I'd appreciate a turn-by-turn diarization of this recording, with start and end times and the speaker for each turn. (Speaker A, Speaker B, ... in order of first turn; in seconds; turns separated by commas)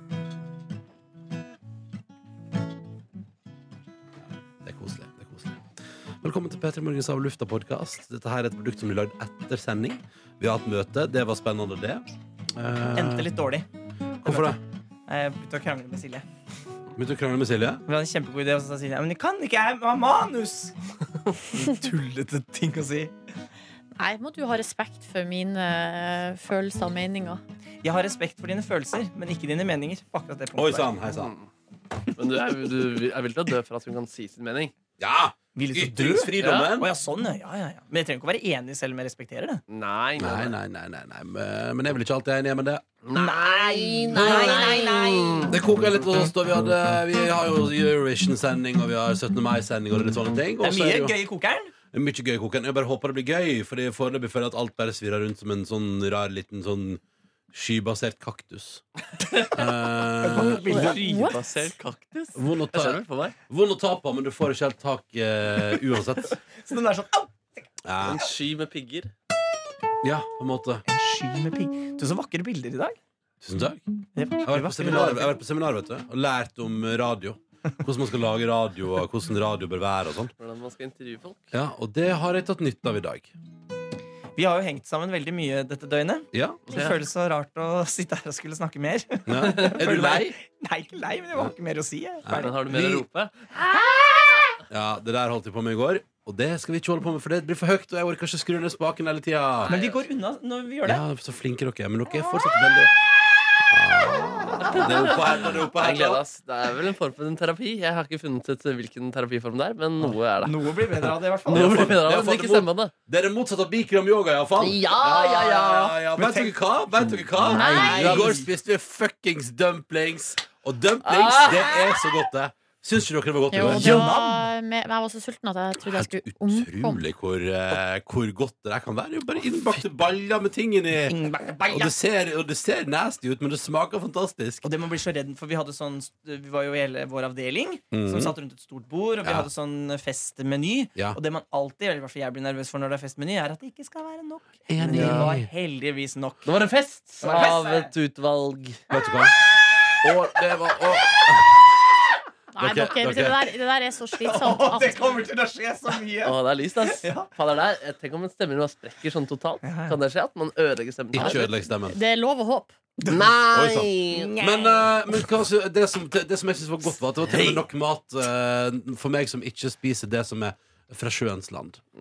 Speaker A: 4.6-5.6, Speaker A: 6.2-13.3, Speaker B: 12.9-13.7, Speaker A: 14.2-14.6, Speaker B: 14.2-16.2, Speaker A: 16.9-17.8, Speaker B: 17.9-20.7, Speaker B: 21.4-23.1, Speaker C: 24.0-27.4, Speaker B: 27.8-30.9, Speaker A: 30.6-31.3, Speaker D: 31.1-31.5, Speaker D: 32.1-34.7, Speaker A: 35.0-36.9, Speaker B: 35.5-39.6, Speaker D: 36.4-36.7, Speaker D: 39.7-40.5, Speaker A: 40.2-43.0, Speaker D: 43.1-45.6, Speaker B: 43.1-45.5, Speaker A: 44.0-44.8, Speaker A: 45.5-51.1, Speaker B: 50.6-51.7, Speaker A: 51.9-57.0, Speaker A: 57.5-58.8, Speaker A: 59.5-60.9, Speaker B: 60.2-61.4, Speaker D: 60.6-63.4, Speaker C: 60.7-61.8, Speaker A: 62.4-66.4, Speaker B: 66.5-67.6, Speaker A: 67.8-68.3, Speaker D: 68.0-69.1, Speaker A: 70.0-70.8, Speaker B: 70.9-73.0, Speaker A: 73.4-73.8, Speaker B: 74.2-75.4, Speaker A: 74.4-80.3, Speaker D: 80.4-81.5, Speaker A: 81.5-83.3, Speaker B: 84.3-92.5, Speaker A: 86.3-86.6, Speaker A: 89.3-90.4, Speaker A: 92.2-93.1, Speaker D: 92.3-93.3, Speaker A: 94.7-99.7, Speaker D: 99.6-100.0, Speaker B: 99.7-101.0, Speaker A: 100.8-102.9, Speaker A: 103.7-106.2, Speaker D: 104.7-110.7, Speaker B: 110.4-112.0, Speaker A: 111.5-124.1, Speaker D: 111.5-112.9, Speaker D: 114.6-116.0, Speaker B: 116.2-116.6, Speaker D: 117.5-118.4, Speaker B: 117.5-118.5, Speaker C: 117.5-118.3, Speaker D: 121.0-121.8, Speaker C: 123.5-127.0, Speaker B: 123.6-124.5, Speaker A: 125.8-131.2, Speaker B: 131.1-131.9, Speaker A: 131.7-134.7, Speaker B: 134.6-146.6, Speaker A: 137.9-138.3, Speaker A: 139.2-139.5, Speaker A: 144.7-145.5, Speaker D: 144.9-145.3, Speaker D: 146.4-148.8, Speaker B: 147.2-147.9, Speaker A: 148.9-149.3, Speaker A: 150.0-151.6, Speaker C: 152.5-155.2, Speaker A: 152.6-153.5, Speaker B: 154.2-157.3, Speaker D: 156.2-161.5, Speaker B: 159.6-160.0, Speaker A: 161.1-162.0, Speaker C: 161.2-162.8, Speaker B: 163.0-163.3, Speaker D: 163.1-164.3, Speaker A: 163.1-171.8, Speaker D: 167.3-167.6